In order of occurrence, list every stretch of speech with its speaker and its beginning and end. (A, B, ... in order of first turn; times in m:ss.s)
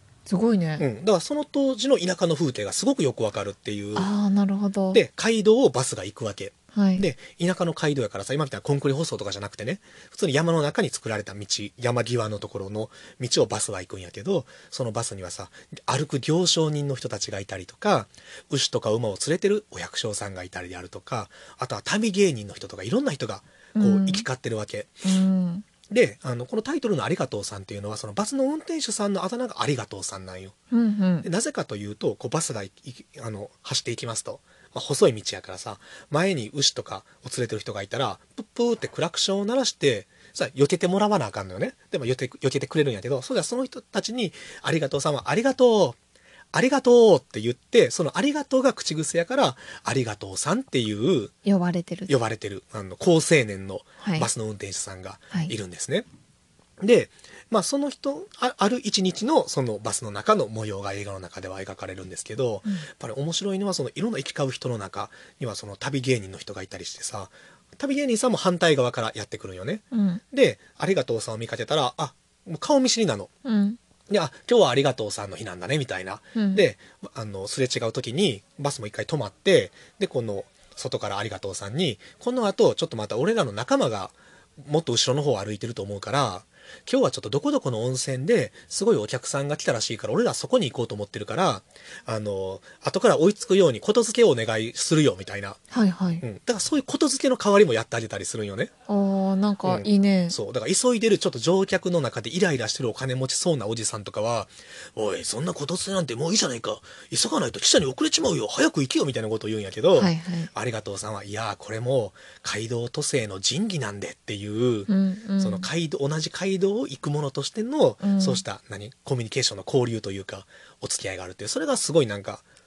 0:00.3-0:00.8 A
0:00.8-0:04.1 B
0:04.0-0:05.0 A
0:04.9-0:25.0 B
0:06.7-0:07.0 A
0:23.8-0:24.3 A
0:25.0-0:25.7 A
0:25.9-0:30.6 B
0:30.7-0:31.3 A
0:31.2-0:46.0 B
0:46.5-0:51.3 B
0:51.4-0:52.1 A
0:52.1-0:56.1 B
0:54.0-0:54.3 A
0:56.8-1:13.3 B
1:09.9-1:10.2 A
1:13.4-1:13.8 A
1:14.1-1:35.6 B
1:16.4-1:16.6 A
1:35.7-1:36.2 A
1:36.2-1:38.7 B
1:38.9-1:40.4 A
1:39.6-2:02.4 B
1:50.0-1:50.5 A
1:54.9-1:55.7 A
1:58.0-1:58.4 A